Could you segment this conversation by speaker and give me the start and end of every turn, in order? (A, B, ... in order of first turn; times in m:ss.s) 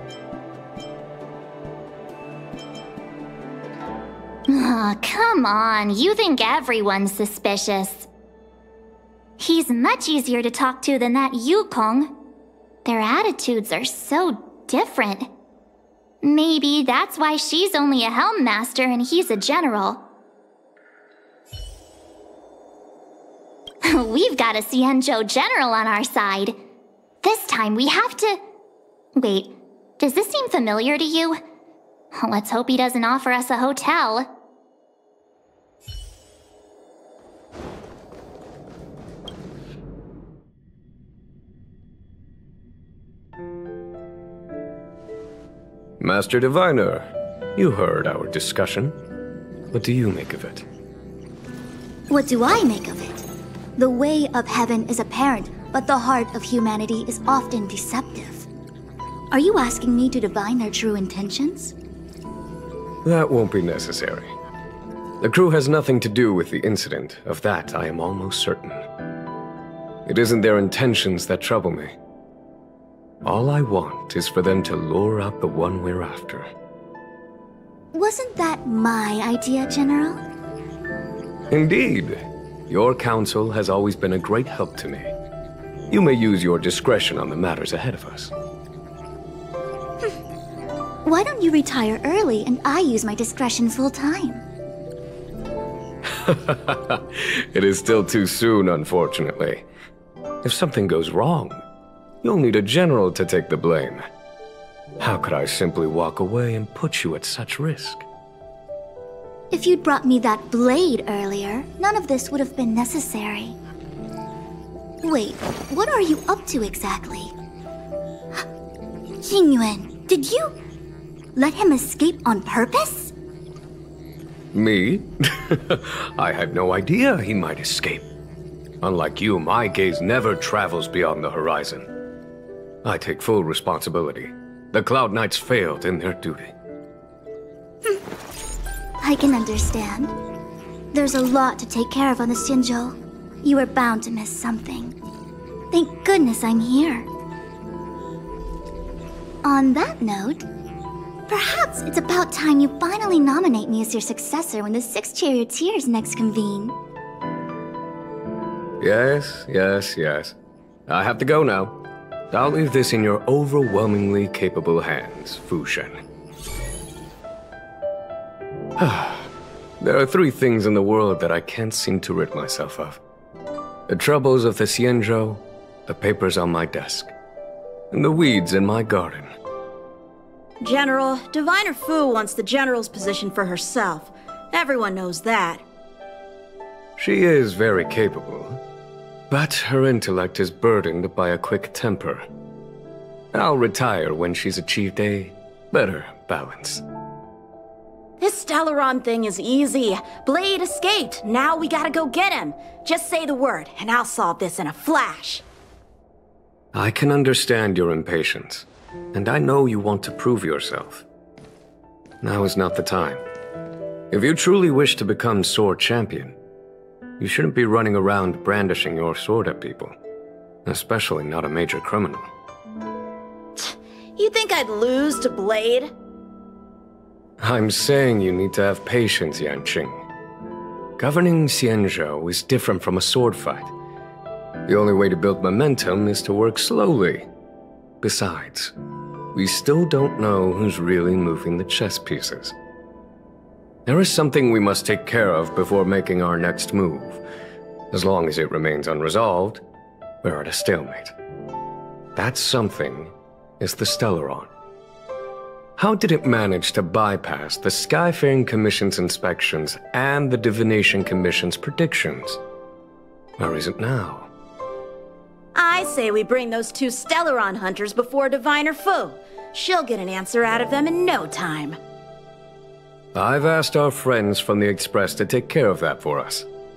0:04.5-0:08.1 A
0:09.4-0:12.2 A
0:12.8-0:15.3 A
0:16.2-0:20.0 A
0:23.8-0:26.6 A
0:27.2-0:28.4 A
0:29.2-0:31.4 A
0:32.1-0:34.3 A
0:46.0-0:49.0 B
0:49.7-0:50.6 B
0:52.1-0:53.2 C
0:53.8-0:58.4 C
0:59.3-1:01.7 C
1:03.0-1:04.3 B
1:05.2-1:08.8 B
1:10.0-1:11.9 B
1:13.2-1:16.5 B
1:17.9-1:20.2 C
1:21.5-1:25.1 B
1:25.9-1:28.3 B
1:31.0-1:34.4 C
1:36.1-1:39.6 B
1:40.4-1:41.6 B
1:42.2-1:44.0 B
1:45.0-1:48.0 B
1:49.5-1:53.6 C
1:55.0-1:57.3 C
1:59.2-2:00.6 C
2:01.4-2:03.1 C
2:04.5-2:08.1 B
2:08.8-2:11.9 B
2:12.8-2:16.5 B
2:19.0-2:20.1 C
2:20.9-2:25.0 C
2:25.7-2:27.1 C
2:29.4-2:30.5 C
2:31.3-2:36.8 C
2:38.8-2:40.3 B
2:40.9-2:41.8 B
2:42.3-2:46.0 B
2:48.8-2:49.3 B
2:49.8-2:53.0 B
2:53.9-2:57.1 B
2:57.9-2:59.3 B
3:00.6-3:05.6 D
3:07.0-3:08.6 B
3:09.3-3:12.2 B
3:13.3-3:16.8 B
3:18.2-3:25.4 D
3:26.7-3:31.0 B
3:32.2-3:33.2 B
3:34.1-3:36.4 B
3:37.2-3:39.9 B
3:40.6-3:42.2 B
3:43.6-3:45.9 D
3:47.4-3:50.0 B
3:51.0-3:53.7 B
3:54.7-3:57.2 B
3:58.0-3:58.7 B
3:59.3-4:02.5 B
4:03.8-4:07.2 B
4:07.9-4:09.6 B
4:10.2-4:11.1 B
4:12.1-4:14.5 B
4:15.8-4:22.4 B
4:23.4-4:24.3 B
4:25.5-4:31.8 D
4:33.1-4:36.4 B